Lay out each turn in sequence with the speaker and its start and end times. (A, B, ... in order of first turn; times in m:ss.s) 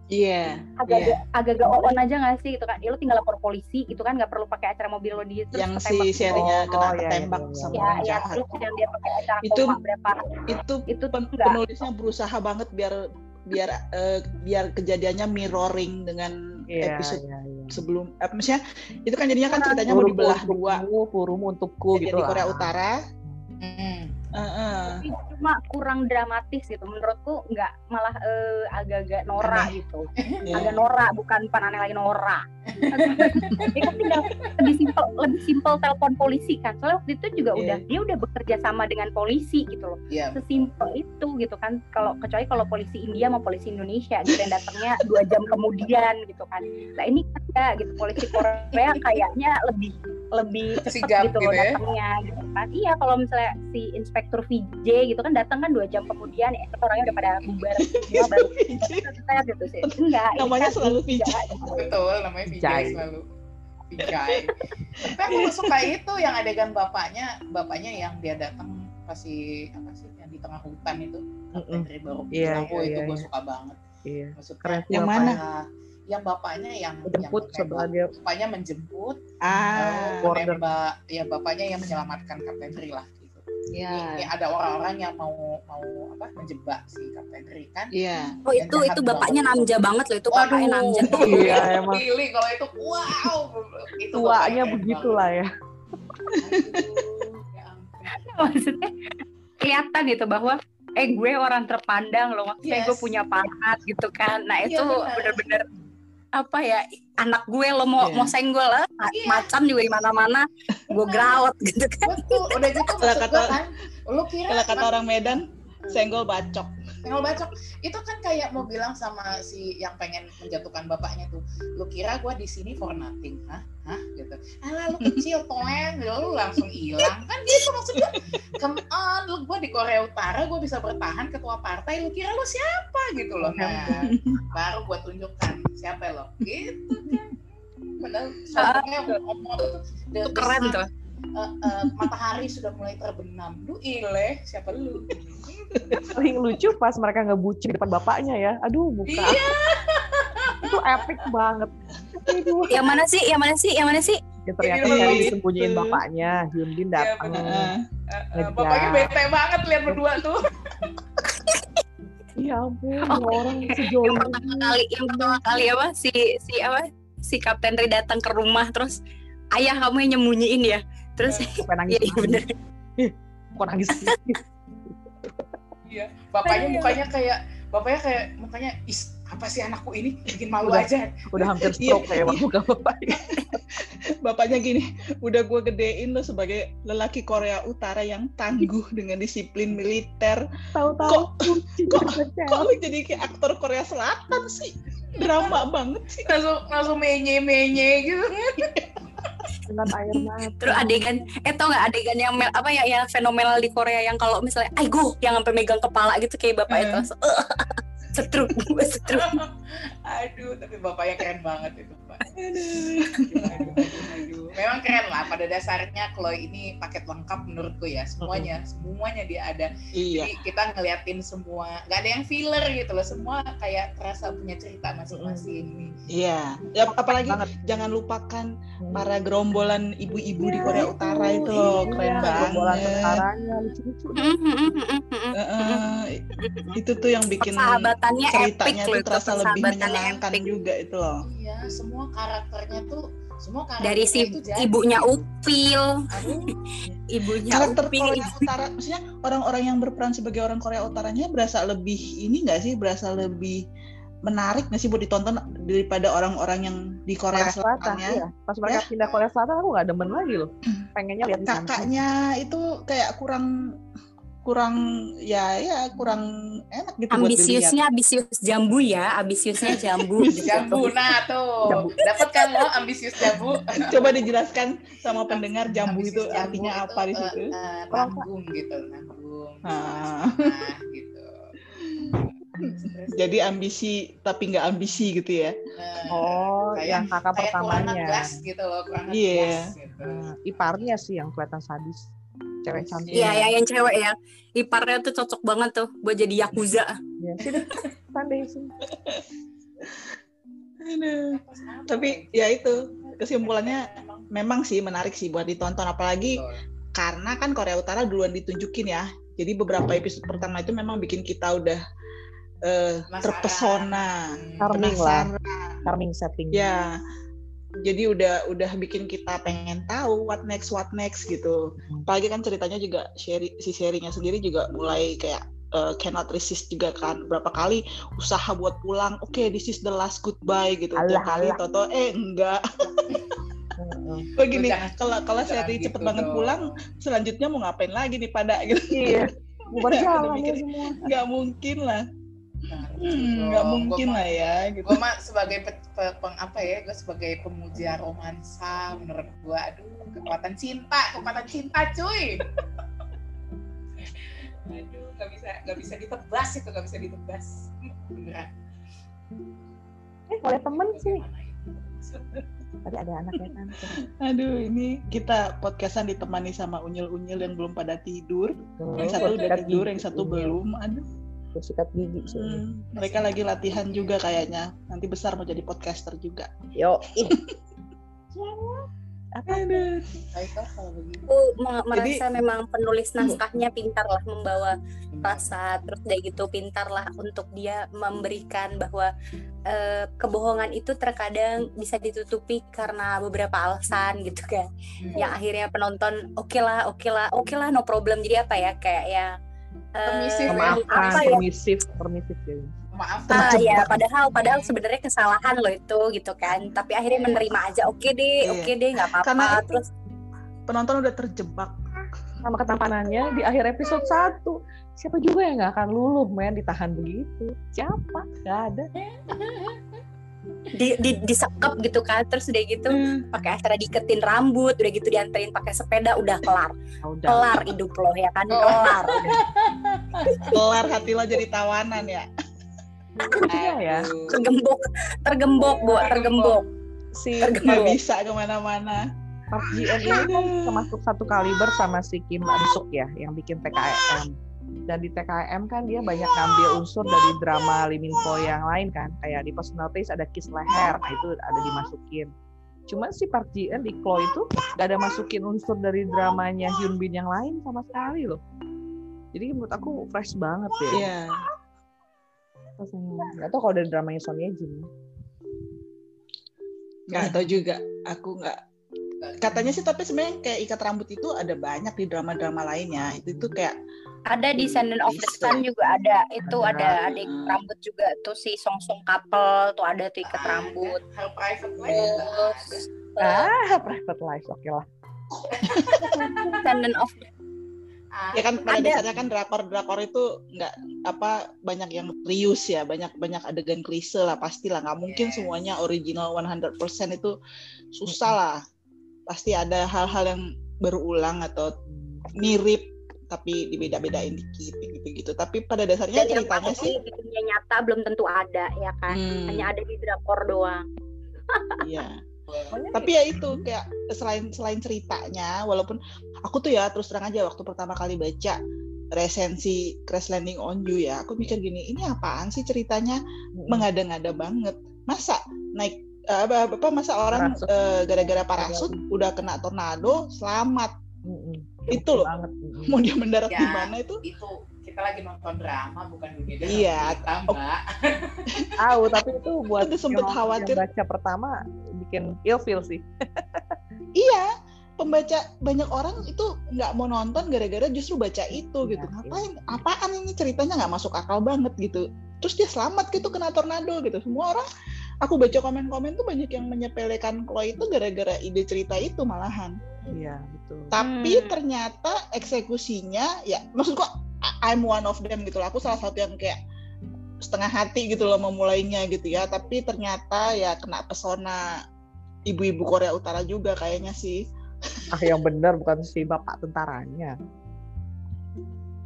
0:00.1-0:01.2 A
0:00.8-0:06.5 B
0:05.5-0:08.4 A
0:06.3-0:08.0 C
0:07.7-0:11.6 B
0:09.4-0:09.8 A
0:10.5-0:17.2 A
0:16.7-0:17.8 C
0:17.7-0:20.8 A
0:19.5-0:19.8 B
0:19.9-0:23.4 C
0:21.9-0:23.0 A
0:23.6-0:24.1 D
0:24.3-0:25.0 A
0:24.8-1:01.9 B
0:29.4-0:29.7 A
0:30.2-0:30.5 D
0:30.4-0:30.8 A
0:32.7-0:34.9 D
0:37.5-0:37.8 A
0:40.1-0:40.6 D
0:48.7-0:49.1 D
0:50.8-0:51.7 D
0:57.1-0:57.5 D
0:57.5-0:59.1 A
0:59.8-1:01.8 A
1:01.7-1:03.2 D
1:02.5-1:03.0 C
1:03.9-1:13.8 D
1:04.0-1:04.4 A
1:05.0-1:05.9 A
1:11.5-1:13.2 C
1:14.0-1:15.4 C
1:14.4-1:19.2 D
1:14.9-1:15.4 A
1:17.1-1:18.1 C
1:19.4-1:20.3 A
1:19.7-1:27.9 D
1:20.2-1:20.6 C
1:23.8-1:24.3 A
1:27.9-1:28.3 A
1:28.4-1:31.6 B
1:28.6-1:29.7 D
1:30.3-1:35.2 D
1:31.0-1:32.0 C
1:34.1-1:35.5 C
1:36.3-1:37.0 A
1:36.3-1:38.6 D
1:38.1-1:38.9 B
1:39.6-1:45.6 B
1:42.6-1:43.1 D
1:44.6-1:45.5 D
1:46.4-1:52.8 B
1:48.0-1:48.3 A
1:49.1-1:49.5 D
1:50.9-1:51.4 D
1:52.0-1:56.0 D
1:53.0-1:53.6 A
1:54.5-1:56.8 A
1:57.0-2:17.4 D
2:07.0-2:08.2 A
2:13.4-2:14.1 C
2:14.1-2:14.4 A
2:18.0-2:20.8 D
2:18.6-2:19.1 B
2:20.3-2:20.9 B
2:21.3-2:26.2 D
2:25.8-2:26.2 A
2:26.1-2:29.4 C
2:29.1-2:31.2 D
2:30.6-2:32.8 C
2:32.7-2:34.2 B
2:34.5-2:37.7 C
2:34.6-2:35.3 D
2:34.8-2:36.0 A
2:37.0-2:40.5 D
2:37.3-2:37.8 A
2:38.3-2:39.1 C
2:39.9-2:40.1 C
2:42.4-2:44.4 C
2:43.0-2:49.0 B
2:44.3-2:45.4 D
2:49.5-2:52.5 B
2:51.6-2:52.4 C
2:53.0-2:55.5 C
2:55.9-3:01.1 D
2:56.5-2:56.8 B
3:00.6-3:03.3 C
3:01.7-3:02.4 A
3:03.1-3:10.4 A
3:10.7-3:12.7 C
3:11.0-3:16.3 A
3:15.1-3:15.6 D
3:16.2-3:18.7 D
3:19.7-3:20.9 C
3:20.5-3:29.4 B
3:26.7-3:27.0 A
3:29.0-3:32.2 D
3:32.4-3:34.2 A
3:33.3-3:45.9 D
3:33.4-3:33.8 C
3:38.2-3:38.5 C
3:39.9-3:40.3 A
3:45.1-3:45.6 C
3:46.1-3:53.2 A
3:47.1-3:47.5 C
3:48.8-3:49.1 C
3:50.6-3:54.3 C
3:50.7-3:53.7 D
3:54.2-3:55.8 B
3:55.4-3:56.2 A
3:56.4-3:56.8 B
3:56.7-4:01.2 A
3:57.4-4:00.5 B
4:01.2-4:05.2 D
4:03.8-4:06.6 B
4:06.1-4:06.6 D
4:07.1-4:08.5 B
4:07.5-4:13.6 A
4:14.2-4:18.8 A
4:17.3-4:22.0 C
4:21.5-4:23.5 A
4:24.4-4:27.8 A
4:27.1-4:31.0 B
4:29.6-4:30.8 A
4:30.3-4:34.3 D
4:31.8-4:32.6 B
4:33.7-4:37.5 A
4:35.3-4:41.5 D
4:37.9-4:38.3 C
4:39.6-4:40.6 A
4:41.8-4:45.5 A
4:42.1-4:43.6 D
4:45.8-4:50.9 D
4:46.1-4:48.4 C
4:49.1-4:49.7 A
4:50.0-4:52.1 C
4:52.6-4:53.3 C
4:52.7-4:53.1 A
4:53.1-4:53.5 D
4:53.1-4:57.0 B
4:57.2-4:58.7 C
5:00.8-5:06.4 A
5:01.3-5:04.3 D
5:06.2-5:06.6 D
5:06.9-5:11.8 A
5:12.6-5:14.2 A
5:13.1-5:14.9 D
5:14.6-5:15.3 C
5:14.7-5:15.8 A
5:15.8-5:16.7 C
5:16.5-5:17.0 A
5:17.8-5:33.1 A
5:31.0-5:31.6 C
5:33.8-5:34.3 C
5:34.4-5:39.2 A
5:34.4-5:36.8 D
5:38.9-5:41.1 C
5:39.6-5:39.9 D
5:39.8-5:42.0 A
5:42.7-5:52.5 D
5:43.0-5:45.0 A
5:54.0-5:58.5 D
6:00.3-6:01.2 C
6:00.6-6:02.4 D
6:02.8-6:04.0 C
6:04.2-6:11.1 A
6:08.8-6:10.6 C
6:09.0-6:09.7 D
6:11.5-6:12.6 C
6:12.2-6:16.5 A
6:12.9-6:14.1 D
6:16.8-6:17.4 C
6:17.2-6:17.6 A
6:18.3-6:20.1 C
6:19.5-6:19.8 A
6:20.3-6:21.2 D
6:21.3-6:29.1 B
6:21.9-6:22.2 A
6:25.1-6:25.4 D
6:29.7-6:34.6 B
6:35.0-6:35.4 D
6:35.2-6:39.3 B
6:40.0-6:41.4 B
6:40.0-6:41.4 D
6:40.5-6:42.7 C
6:42.9-6:44.7 D
6:43.3-6:43.9 C
6:43.3-6:49.9 B
6:47.1-6:47.4 D
6:48.4-6:49.6 A
6:50.7-6:51.9 A
6:52.4-6:58.9 C
6:59.0-6:59.8 D
7:00.7-7:06.7 B
7:03.0-7:03.2 A
7:07.0-7:07.6 C
7:07.3-7:09.4 B
7:08.5-7:10.5 D
7:10.2-7:10.6 B
7:10.5-7:12.3 A
7:13.2-7:14.1 C
7:13.4-7:14.4 D
7:14.3-7:16.6 B
7:15.6-7:16.6 D
7:17.1-7:17.8 C
7:17.4-7:18.0 B
7:17.6-7:19.0 A
7:19.5-7:24.3 C
7:19.7-7:20.8 A
7:24.9-7:32.3 C
7:32.9-7:38.4 C
7:39.3-7:41.1 C
7:40.9-7:41.4 A
7:42.8-7:44.9 C
7:47.1-7:48.6 A
7:49.4-7:53.7 A
7:53.0-7:53.5 C
7:54.3-8:01.0 B
7:54.6-7:55.6 A
7:56.5-7:57.0 C
7:56.7-7:57.6 A
8:00.2-8:02.8 D
8:01.9-8:03.5 B
8:03.2-8:04.8 C
8:05.5-8:06.7 D
8:05.6-8:06.3 A
8:06.0-8:06.6 C
8:06.6-8:07.2 B
8:08.1-8:09.0 D
8:08.3-8:17.3 A
8:08.7-8:09.0 B
8:15.0-8:15.5 D
8:17.9-8:18.6 A
8:18.1-8:18.4 C
8:19.3-8:21.7 A
8:21.9-8:22.4 C
8:22.4-8:27.0 A
8:26.1-8:30.8 B
8:29.1-8:29.7 A
8:31.5-8:31.8 B
8:31.8-8:32.2 A
8:32.5-8:32.7 D
8:32.7-8:33.1 C
8:32.9-8:38.6 A
8:39.1-8:50.9 A
8:43.6-8:43.8 C
8:47.3-8:49.0 C
8:51.3-8:53.0 C
8:51.9-8:52.3 A
8:52.9-8:54.2 A
8:53.5-8:58.6 D
8:56.6-8:57.6 A
8:58.8-9:03.8 C
8:59.8-9:00.8 A
9:04.2-9:14.7 A
9:08.8-9:09.5 C
9:15.2-9:19.8 A
9:20.1-9:21.0 C
9:20.9-9:26.6 A
9:21.0-9:21.6 B
9:27.4-9:31.8 A
9:32.5-9:34.4 A
9:35.1-9:37.3 C